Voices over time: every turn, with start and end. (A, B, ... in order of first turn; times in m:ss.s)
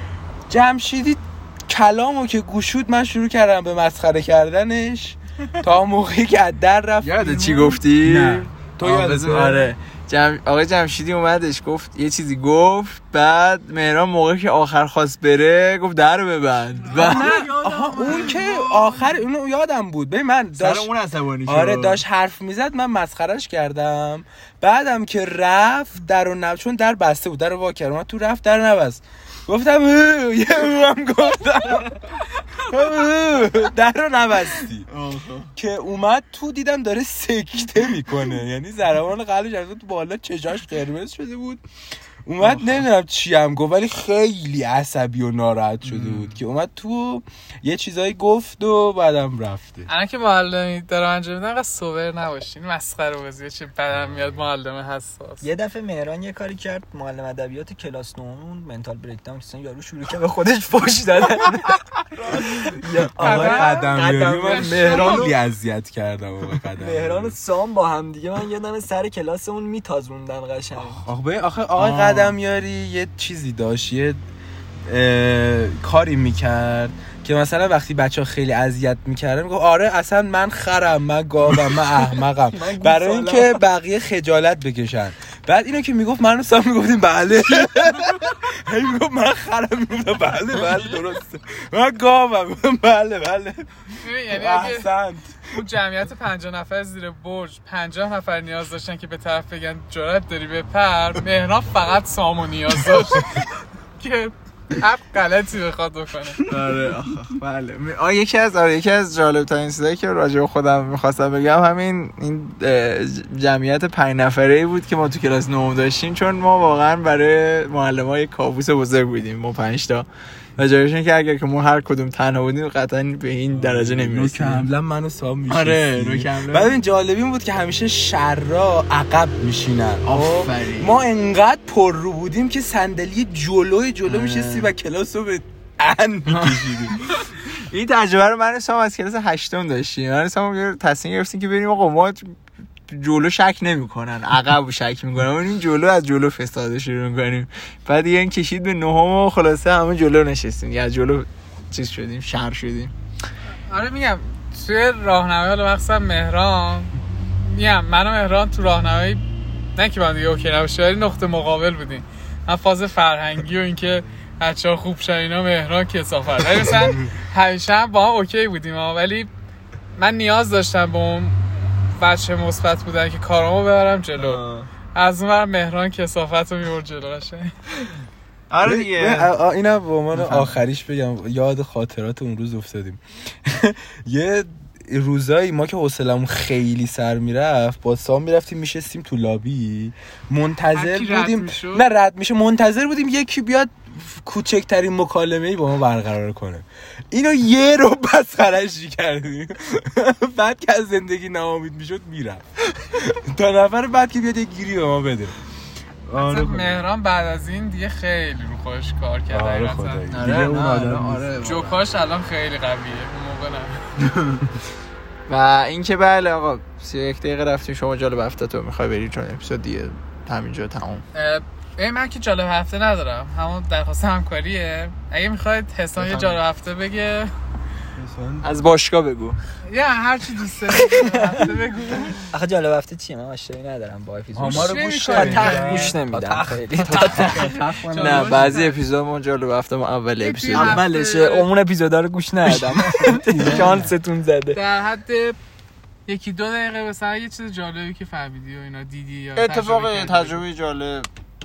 0:00.5-0:09.7 A
0:07.0-0:17.5 B
0:16.8-0:19.2 C
0:16.9-0:20.9 A
0:20.6-0:22.0 B
0:21.4-0:34.9 A
0:34.9-0:35.5 B
0:35.6-0:41.6 A
0:42.2-0:49.9 A
0:42.4-0:42.8 B
0:45.8-0:46.4 B
0:49.9-0:55.4 C
0:55.4-1:05.3 D
1:03.2-1:07.4 A
1:03.2-1:05.3 C
1:06.7-1:11.0 D
1:10.8-1:14.2 A
1:11.8-1:12.4 B
1:14.8-1:35.6 A
1:22.5-1:23.6 D
1:34.0-1:34.9 C
1:35.4-1:46.4 C
1:46.4-2:04.7 B
2:03.5-2:17.0 A
2:05.5-2:06.7 B
2:10.0-2:11.0 B
2:14.0-2:14.7 B
2:16.3-2:22.4 B
2:22.9-2:32.9 B
2:33.7-2:39.2 C
2:39.8-2:49.3 C
2:50.0-2:54.4 C
2:54.2-2:54.7 B
2:54.9-2:57.5 C
2:58.5-2:59.3 B
2:58.6-3:25.4 A
3:00.1-3:00.6 B
3:10.7-3:11.8 C
3:26.1-3:26.8 A
3:26.1-3:30.0 C
3:29.3-3:31.5 A
3:30.1-3:31.8 B
3:31.4-3:33.9 C
3:34.0-3:34.5 A
3:35.3-3:41.0 B
3:41.1-3:47.3 C
3:46.0-3:46.4 B
3:48.0-3:48.5 A
3:48.4-3:49.4 B
3:49.6-3:52.2 C
3:51.0-3:51.3 D
3:52.3-3:57.5 D
3:54.3-3:58.5 A
3:54.4-3:56.0 C
3:56.9-3:58.8 C
3:56.9-4:00.8 B
4:00.2-4:01.5 C
4:00.5-4:04.6 D
4:02.9-4:03.9 A
4:04.5-4:05.4 C
4:06.1-4:10.4 C
4:09.4-4:11.1 B